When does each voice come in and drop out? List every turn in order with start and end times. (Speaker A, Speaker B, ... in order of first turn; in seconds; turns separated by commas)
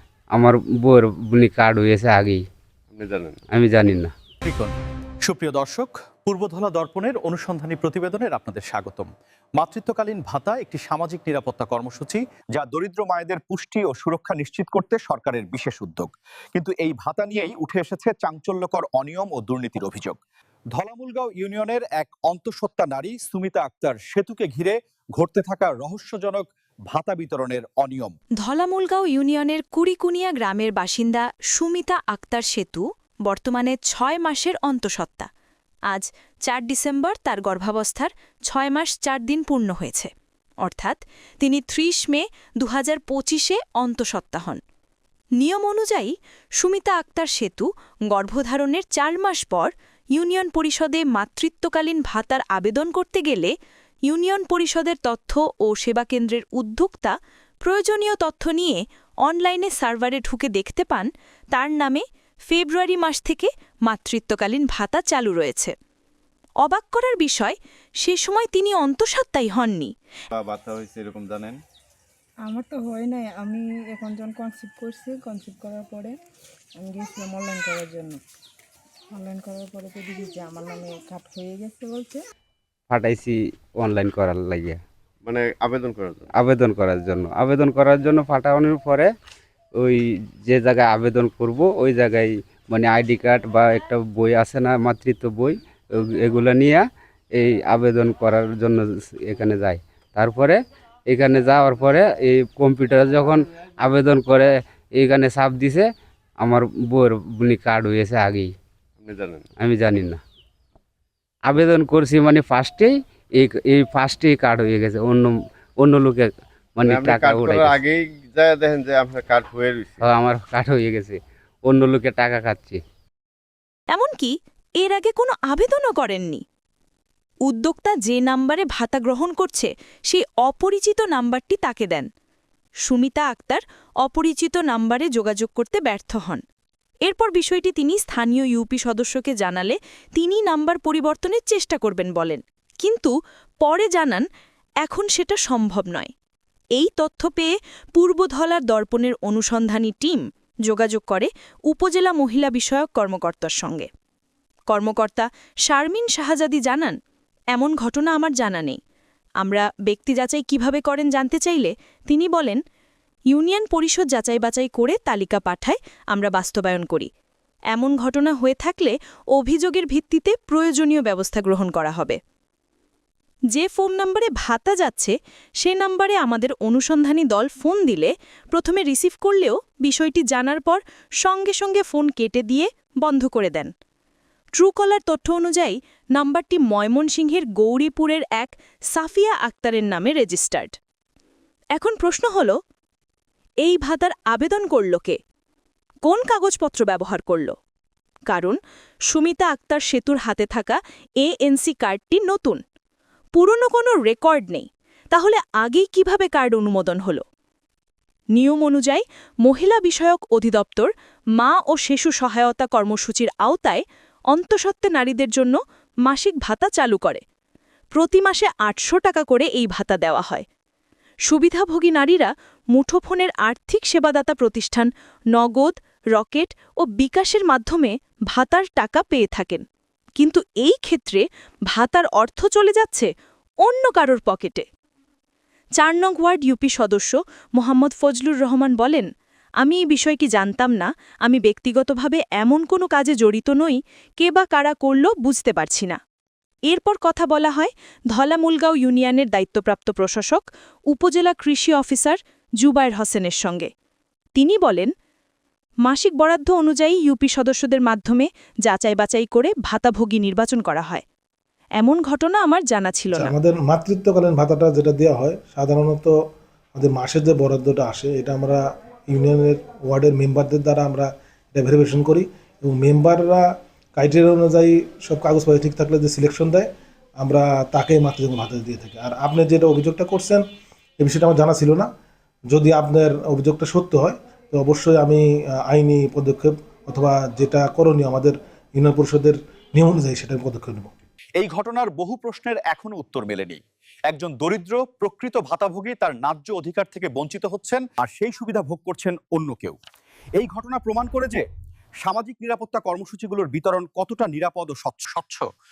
Speaker A: 0.3-2.4, Speaker B: 2.9-3.4, Speaker A: 3.5-4.1, Speaker C: 4.4-20.2, Speaker C: 20.7-28.1, Speaker D: 28.4-35.3, Speaker D: 35.9-40.1, Speaker D: 40.6-44.6, Speaker D: 45.4-53.5, Speaker D: 54.1-65.7, Speaker D: 66.6-69.9, Speaker B: 70.3-71.6, Speaker E: 72.5-76.2, Speaker E: 76.8-78.2, Speaker E: 79.1-82.2, Speaker A: 82.9-84.8, Speaker B: 85.2-86.3, Speaker A: 86.4-89.1, Speaker A: 89.8-95.6, Speaker A: 96.2-105.9, Speaker A: 106.4-108.5, Speaker B: 109.0-109.5, Speaker A: 109.6-110.2, Speaker A: 111.5-117.8, Speaker B: 116.8-120.1, Speaker A: 120.0-122.8, Speaker D: 123.9-126.4, Speaker D: 127.5-132.1, Speaker D: 132.8-136.4, Speaker D: 137.1-144.2, Speaker D: 144.8-146.1, Speaker D: 146.8-153.9, Speaker D: 154.7-157.0, Speaker D: 157.5-158.8, Speaker D: 159.4-162.6, Speaker D: 163.3-167.1, Speaker D: 167.7-172.2, Speaker D: 173.5-183.7, Speaker D: 184.6-190.8, Speaker D: 191.8-192.6, Speaker D: 193.6-195.2, Speaker D: 196.1-197.5, Speaker D: 198.3-198.6, Speaker D: 199.1-202.6, Speaker D: 203.3-207.2, Speaker D: 208.3-217.2, Speaker D: 217.9-220.4, Speaker D: 221.3-229.6, Speaker D: 230.2-233.1, Speaker D: 233.6-234.7, Speaker D: 235.8-239.1, Speaker D: 239.6-246.0, Speaker D: 246.7-253.7, Speaker D: 254.3-254.9, Speaker D: 255.8-261.0, Speaker D: 261.8-263.3, Speaker F: 263.1-266.1, Speaker F: 266.8-276.7, Speaker F: 277.2-280.4, Speaker F: 281.0-281.9, Speaker F: 282.5-290.9, Speaker C: 291.4-299.8, Speaker C: 300.4-301.4, Speaker C: 302.0-305.5